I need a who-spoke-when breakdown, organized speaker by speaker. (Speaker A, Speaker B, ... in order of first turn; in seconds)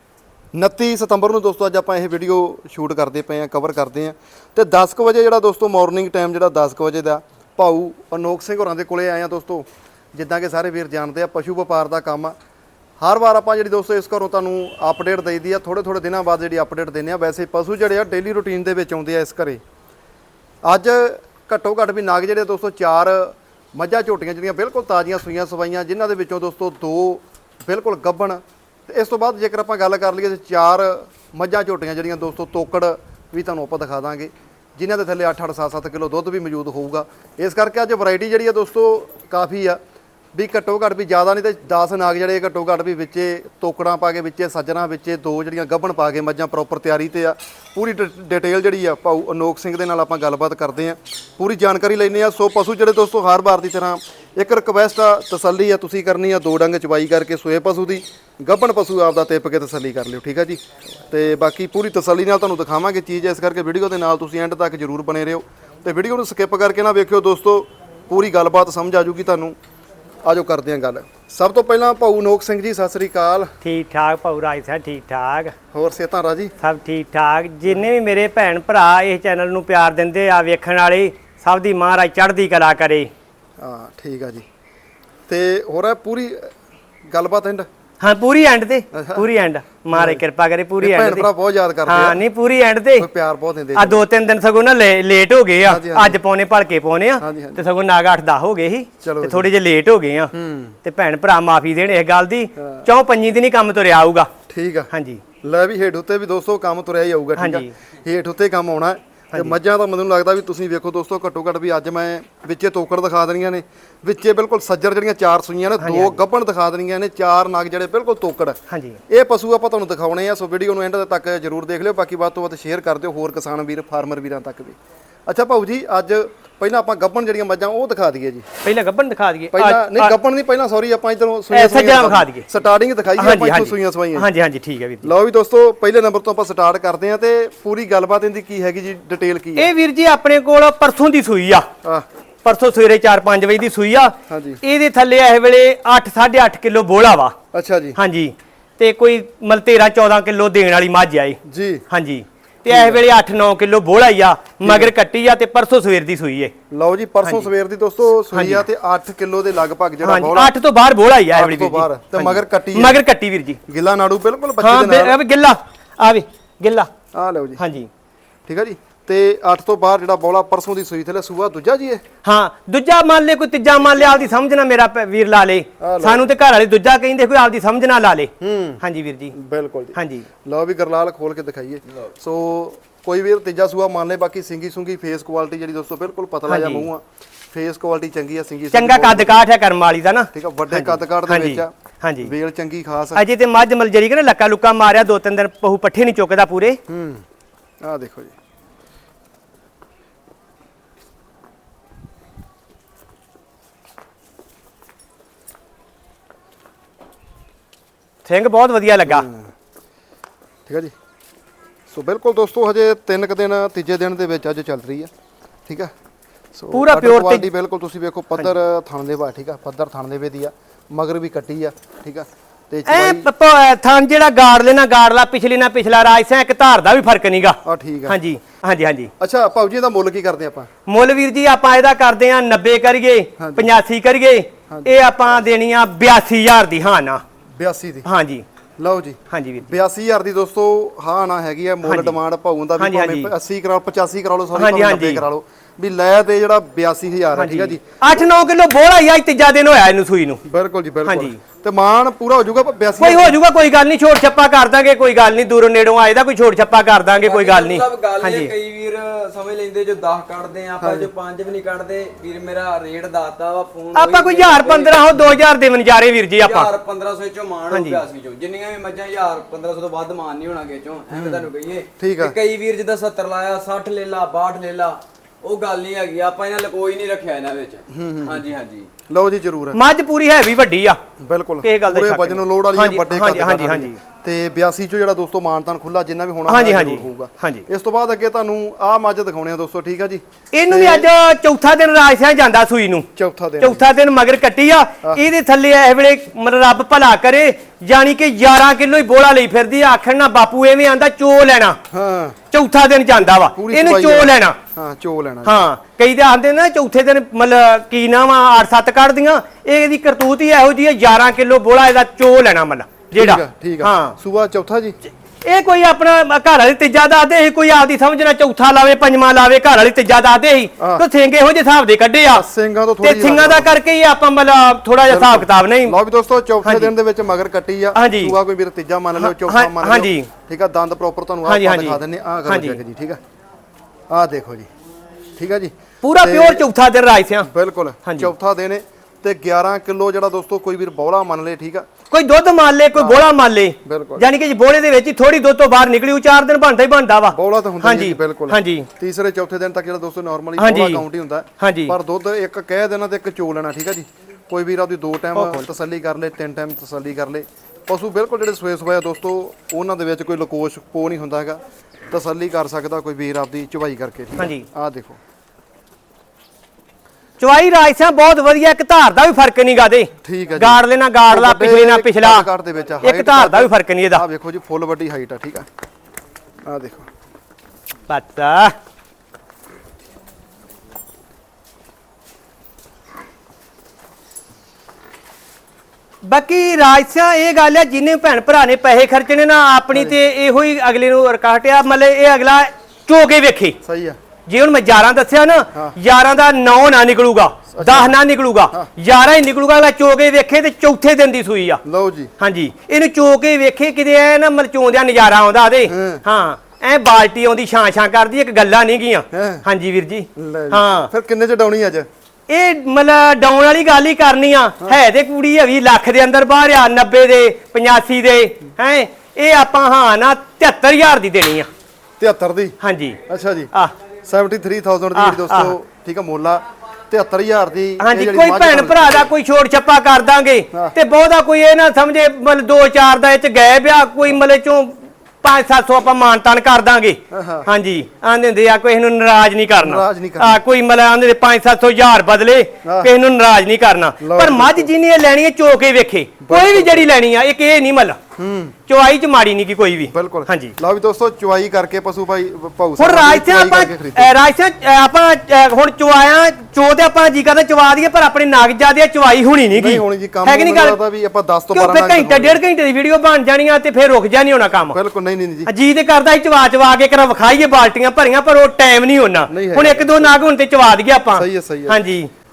Speaker A: 0.5-12.3, 13.0-19.6, 20.6-39.8, 40.3-69.5, 70.2-73.5, 75.7-76.5, 83.6-84.4, 85.3-86.5, 87.1-87.7, 88.9-89.2, 89.9-90.2, 90.8-92.2, 93.0-94.0, 95.7-96.2, 97.2-97.6, 99.0-99.5, 100.3-100.8, 102.6-102.8, 104.5-104.9, 105.4-118.6, 119.1-128.4, 129.5-134.3, 135.0-139.7, 144.3-144.6, 147.5-148.0, 151.4-151.8, 152.7-153.0, 154.6-154.9, 156.7-160.5, 161.3-163.0, 163.7-165.2, 167.1-167.6, 168.5-172.0, 175.8-176.3, 178.4-178.8, 179.3-189.4, 190.3-191.7, 192.2-193.2, 196.9-197.2, 197.8-198.3, 209.1-209.5, 210.7-210.9, 211.9-215.1, 215.7-215.9, 216.5-223.3, 227.6-228.2, 229.2-230.7, 233.4-233.7, 237.6-238.1, 238.8-248.2, 250.4-253.4, 260.8-261.1, 271.1-271.5, 272.0-272.3, 277.9-278.4, 279.1-279.8, 281.2-291.1, 293.1-293.8, 301.9-302.4, 303.5-305.6, 313.1-314.9, 320.8-321.0, 322.3-323.7, 325.1-333.2, 334.1-334.7, 335.4-336.6, 337.4-341.9, 342.9-343.2, 343.8-344.3, 347.3-365.2, 370.2-375.6, 376.6-377.1, 393.8-394.2, 397.7-398.2, 401.8-402.3, 405.9-406.2, 409.3-409.6, 410.4-412.1, 422.2-422.8, 423.3-423.7, 424.2-429.3, 437.3-437.7, 439.8-440.6, 442.8-443.1, 444.2-444.9, 446.4-447.1, 448.4-448.7, 450.1-454.3, 459.7-462.6, 464.9-465.7, 469.5-470.4, 471.4-472.0
Speaker B: 73.6-75.5, 76.6-83.1, 88.0-91.3, 91.9-93.1, 93.8-100.3, 100.8-104.3, 104.9-105.2, 107.4-107.7, 115.8-116.2, 118.7-119.0, 128.6-130.1, 131.5-132.5, 133.2-135.1, 139.6-141.7, 142.4-147.3, 147.9-151.4, 151.9-156.5, 158.3-158.6, 160.0-163.6, 164.6-166.9, 167.6-167.9, 172.2-179.3, 179.9-180.2, 186.5-186.9, 188.7-192.3, 193.1-196.8, 208.2-209.3, 216.7-217.4, 222.9-229.1, 230.9-237.2, 238.0-238.4, 239.3-239.7, 241.8-242.1, 242.8-243.3, 244.6-245.2, 247.3-250.4, 251.0-251.4, 253.0-258.5, 263.9-266.7, 267.7-268.0, 279.7-281.0, 281.6-284.0, 286.5-287.6, 290.5-293.1, 293.6-301.8, 302.5-304.6, 305.4-314.1, 315.4-322.4, 323.0-325.9, 326.6-326.9, 327.9-328.3, 329.2-330.3, 331.5-332.8, 336.0-337.5, 338.0-338.3, 342.1-348.9, 350.6-351.0, 351.6-351.9, 364.4-364.6, 367.4-372.4, 373.0-374.2, 378.1-378.7, 386.2-393.8, 394.5-401.8, 402.4-411.1, 412.5-421.7, 422.8-423.2, 425.1-425.7, 428.0-448.2, 448.9-450.7, 453.0-461.0, 461.7-465.0, 465.7-472.3
Speaker C: 257.2-265.3, 266.4-278.9